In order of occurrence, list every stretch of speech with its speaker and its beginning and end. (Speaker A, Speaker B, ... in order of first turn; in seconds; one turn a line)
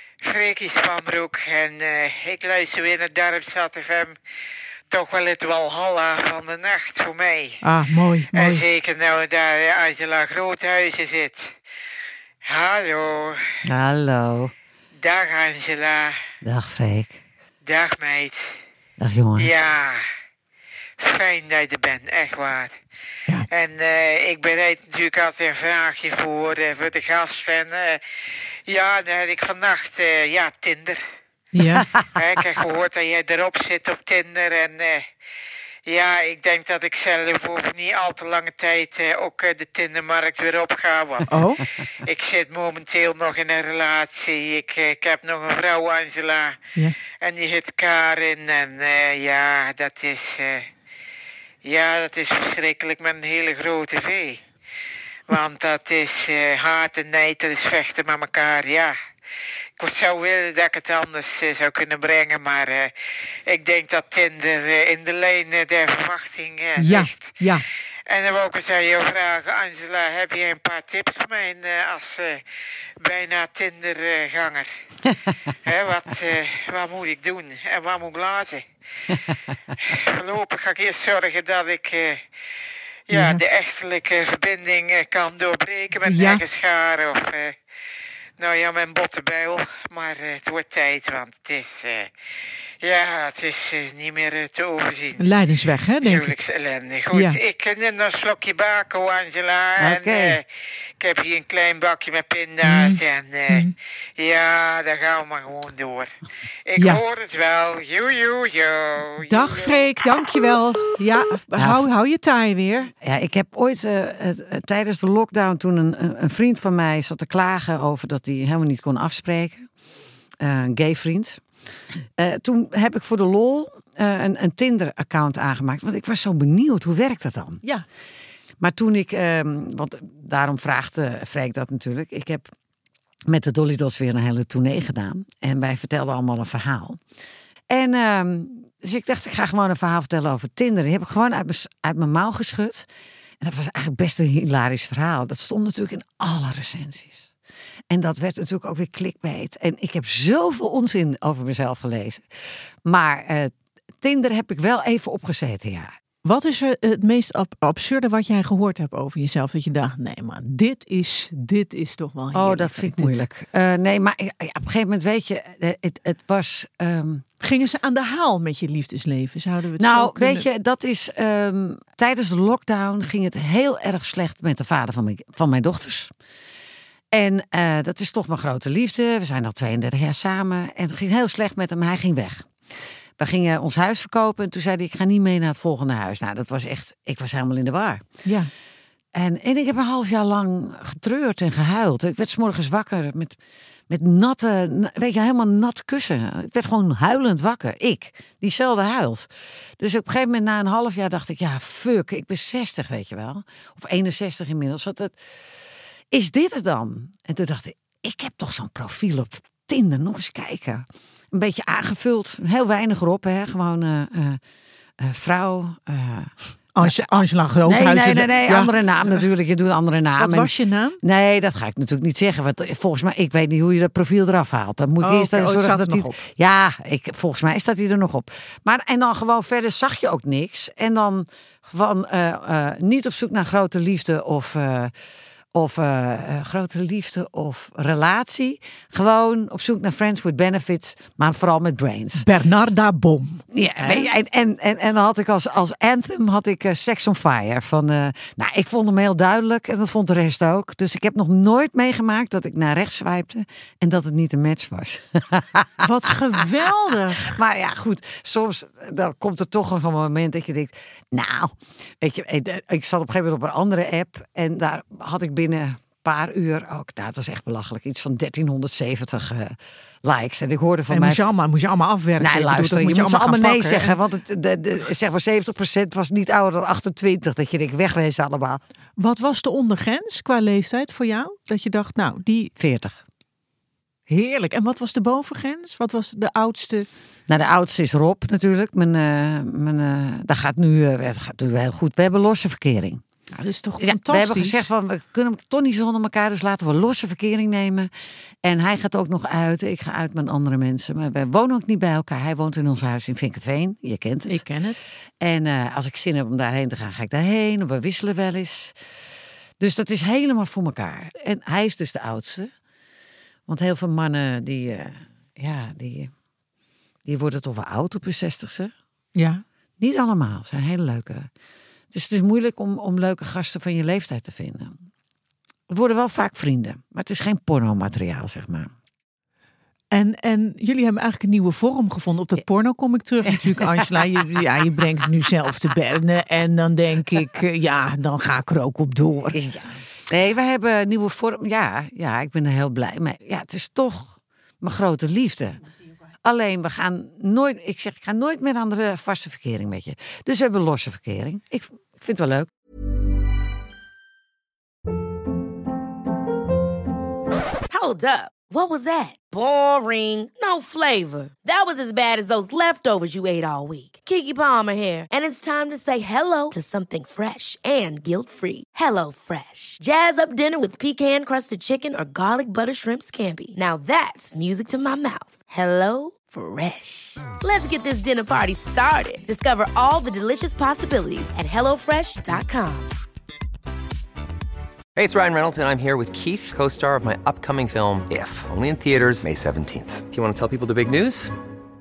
Speaker A: 0.2-4.2
Speaker A: 4.9-7.6
Speaker B: 7.6-8.6
Speaker A: 8.3-11.5
Speaker A: 12.4-13.5
Speaker C: 13.6-14.5
Speaker A: 15.0-16.2
Speaker C: 16.4-17.2
Speaker A: 17.6-18.6
Speaker C: 19.0-19.5
Speaker A: 19.4-20.0
Speaker A: 21.0-22.8
Speaker A: 23.5-28.0
Speaker A: 28.7-31.0
Speaker B: 31.5-31.9
Speaker C: 31.8-32.1
Speaker A: 32.1-35.1
Speaker A: 35.9-41.5
Speaker B: 41.3-41.6
Speaker A: 42.0-46.6
Speaker A: 47.1-50.7
Speaker A: 51.6-54.4
Speaker A: 55.3-59.0
Speaker A: 59.8-62.9
Speaker A: 63.5-67.4
Speaker B: 66.8-67.6
Speaker A: 68.1-72.4
Speaker A: 73.0-74.7
Speaker A: 75.6-78.7
Speaker A: 79.8-82.2
Speaker A: 83.1-87.6
Speaker B: 83.1-83.4
Speaker B: 86.0-86.4
Speaker A: 88.4-92.1
Speaker A: 92.8-95.3
Speaker B: 95.2-96.3
Speaker A: 96.0-100.4
Speaker B: 97.1-97.4
Speaker C: 99.8-100.4
Speaker A: 101.0-106.1
Speaker B: 102.6-103.7
Speaker A: 106.7-109.8
Speaker B: 106.8-107.0
Speaker B: 109.2-112.9
Speaker C: 111.6-111.8
Speaker C: 113.0-119.7
Speaker C: 120.4-121.4
Speaker C: 122.2-127.6
Speaker C: 128.6-132.5
Speaker C: 133.3-137.0
Speaker C: 137.7-142.9
Speaker C: 143.4-147.3
Speaker C: 147.9-152.2
Speaker C: 152.8-155.9
Speaker B: 156.2-163.2
Speaker C: 162.3-167.2
Speaker B: 167.4-170.4
Speaker C: 169.8-176.1
Speaker C: 177.1-182.5
Speaker C: 183.2-188.0
Speaker B: 188.2-188.5
Speaker C: 189.1-193.4
Speaker C: 193.9-199.3
Speaker C: 199.8-205.1
Speaker C: 206.1-214.4
Speaker C: 215.0-234.9
Speaker B: 216.7-219.2
Speaker B: 220.2-221.0
Speaker B: 225.0-226.2
Speaker C: 235.5-242.3
Speaker B: 242.2-244.1
Speaker C: 243.5-255.9
Speaker B: 255.8-257.4
Speaker C: 257.2-271.3
Speaker B: 270.9-273.9
Speaker C: 272.2-278.6
Speaker B: 279.0-282.5
Speaker C: 282.6-283.0
Speaker B: 284.1-286.9
Speaker C: 287.3-293.0
Speaker B: 293.3-294.6
Speaker C: 293.8-297.9
Speaker C: 298.4-304.4
Speaker B: 304.3-304.8
Speaker C: 305.2-308.8
Speaker C: 309.6-312.5
Speaker C: 313.5-316.1
Speaker C: 317.1-318.7
Speaker B: 319.1-319.4
Speaker C: 319.8-321.3
Speaker C: 321.9-324.8
Speaker C: 325.7-328.7
Speaker B: 329.9-339.4
Speaker C: 333.3-334.4
Speaker C: 339.3-345.6
Speaker C: 346.2-352.5
Speaker D: 357.7-382.9
Speaker E: 384.9-391.3